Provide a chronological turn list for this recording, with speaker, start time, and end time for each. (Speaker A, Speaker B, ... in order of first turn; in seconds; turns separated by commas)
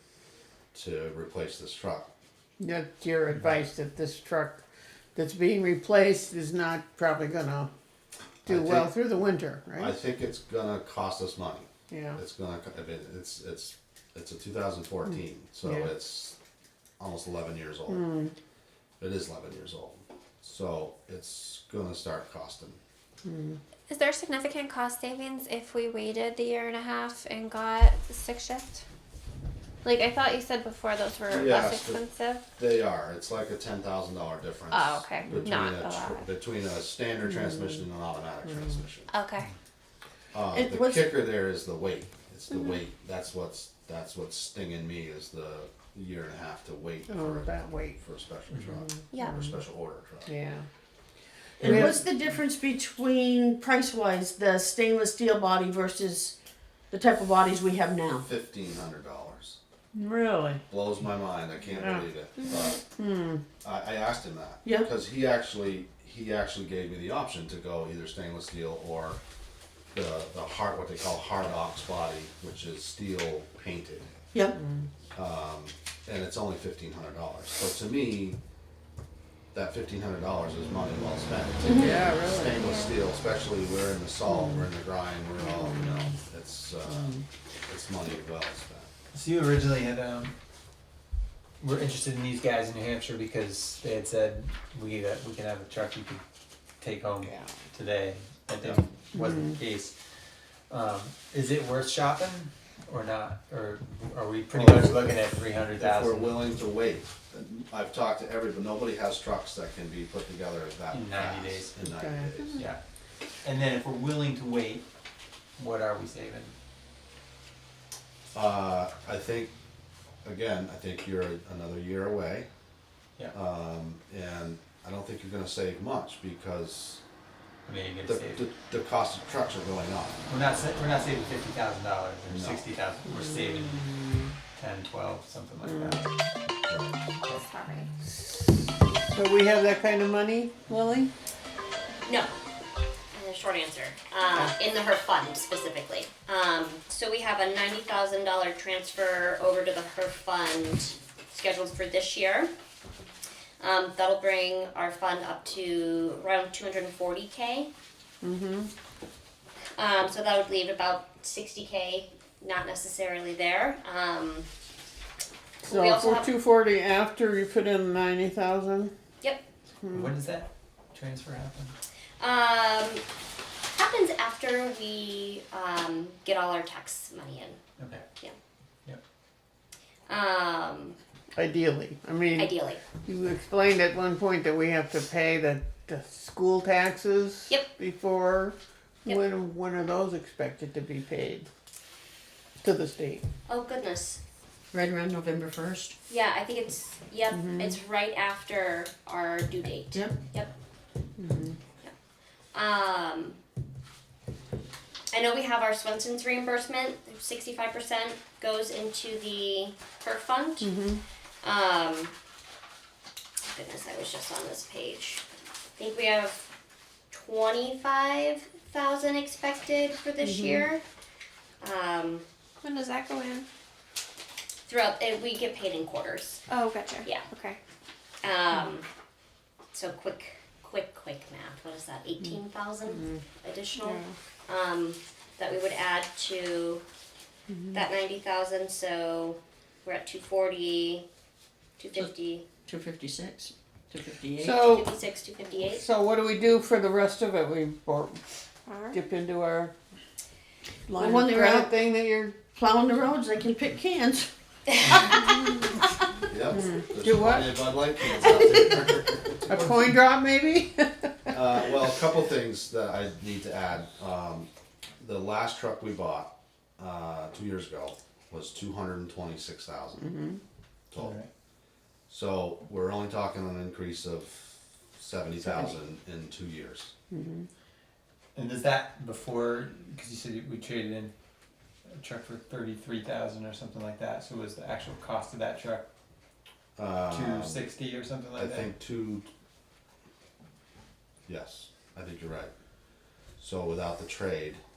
Speaker A: 0.7-2.1, Speaker B: 2.6-4.6, Speaker B: 5.2-7.7, Speaker A: 8.5-8.9, Speaker B: 8.5-9.9, Speaker A: 9.8-16.4, Speaker B: 11.9-12.2, Speaker B: 15.6-15.9, Speaker A: 17.0-18.1, Speaker B: 17.9-18.3, Speaker A: 19.0-22.8, Speaker B: 23.2-23.6, Speaker C: 23.9-28.8, Speaker C: 29.8-32.4, Speaker A: 31.3-32.0, Speaker A: 32.6-39.1, Speaker C: 34.7-36.3, Speaker B: 38.5-38.8, Speaker C: 39.1-39.5, Speaker A: 40.3-50.3, Speaker D: 40.5-41.1, Speaker B: 47.1-48.0, Speaker B: 48.9-49.5, Speaker B: 50.3-50.6, Speaker D: 51.6-56.4, Speaker E: 51.6-51.9, Speaker B: 51.6-52.0, Speaker D: 56.9-58.3, Speaker A: 58.2-59.6, Speaker B: 59.9-60.6, Speaker A: 60.7-62.8, Speaker B: 61.7-62.0, Speaker B: 63.0-63.4, Speaker A: 63.6-69.2, Speaker A: 69.9-74.1, Speaker B: 74.6-74.9, Speaker A: 75.1-78.4, Speaker A: 79.5-87.1, Speaker D: 81.6-82.0, Speaker B: 81.7-82.6, Speaker C: 82.5-83.0, Speaker B: 84.3-84.7, Speaker B: 85.5-86.1, Speaker B: 86.9-87.2, Speaker A: 87.7-88.9, Speaker E: 89.1-90.3, Speaker E: 91.6-96.2, Speaker E: 96.8-99.9, Speaker B: 99.1-99.6, Speaker E: 100.7-106.4, Speaker A: 104.5-105.2, Speaker A: 105.8-112.7, Speaker E: 110.9-111.7, Speaker B: 111.8-112.6, Speaker E: 113.4-114.9, Speaker E: 115.6-116.5, Speaker A: 118.3-119.5, Speaker A: 120.2-122.5, Speaker A: 123.3-127.0, Speaker E: 127.7-128.5, Speaker A: 128.0-130.2, Speaker E: 130.3-136.1, Speaker A: 132.3-132.6, Speaker B: 135.6-136.0, Speaker A: 136.7-137.0, Speaker C: 137.3-137.9, Speaker B: 138.3-141.1, Speaker F: 142.1-142.3, Speaker F: 143.1-152.5, Speaker F: 153.6-157.7, Speaker B: 158.2-158.7, Speaker F: 159.8-164.5, Speaker F: 165.6-166.3, Speaker B: 165.7-168.9, Speaker B: 169.8-170.1, Speaker E: 169.9-171.7, Speaker F: 172.2-173.0, Speaker F: 173.7-177.6, Speaker E: 177.8-178.1, Speaker F: 180.1-181.0, Speaker B: 181.4-182.5, Speaker F: 182.3-182.8, Speaker B: 183.1-191.5, Speaker B: 192.6-193.2, Speaker F: 193.5-194.2, Speaker D: 194.7-196.0, Speaker F: 196.1-200.5, Speaker B: 197.3-197.8, Speaker D: 199.9-200.2, Speaker B: 201.2-201.6, Speaker F: 202.5-203.4, Speaker F: 205.1-210.7, Speaker B: 210.6-211.0, Speaker F: 211.4-212.1, Speaker F: 213.5-215.2, Speaker F: 215.8-216.5, Speaker F: 217.1-220.8, Speaker B: 220.2-220.7, Speaker F: 221.6-222.2, Speaker C: 222.6-223.5, Speaker F: 224.7-226.4, Speaker C: 226.5-227.6, Speaker F: 228.2-228.9, Speaker F: 229.7-236.8, Speaker B: 232.2-233.2, Speaker B: 237.5-237.9, Speaker F: 237.7-241.1, Speaker F: 241.8-242.5, Speaker D: 242.7-244.7, Speaker B: 244.4-244.9, Speaker F: 244.6-245.8, Speaker B: 245.7-248.2, Speaker C: 248.7-249.0, Speaker B: 248.9-249.7, Speaker B: 250.9-252.4, Speaker D: 251.0-251.7, Speaker D: 252.5-254.3, Speaker D: 254.8-255.6, Speaker A: 256.3-259.9, Speaker B: 256.5-257.6, Speaker B: 259.5-261.4, Speaker A: 261.3-264.5, Speaker A: 265.0-270.1, Speaker B: 270.0-270.4, Speaker A: 270.9-271.2, Speaker E: 270.9-271.3, Speaker A: 272.1-276.9, Speaker B: 277.1-277.5, Speaker E: 278.4-281.1, Speaker E: 282.0-285.9, Speaker A: 286.8-287.6, Speaker E: 287.1-288.7, Speaker A: 288.4-289.3, Speaker A: 291.3-292.5, Speaker A: 293.4-294.6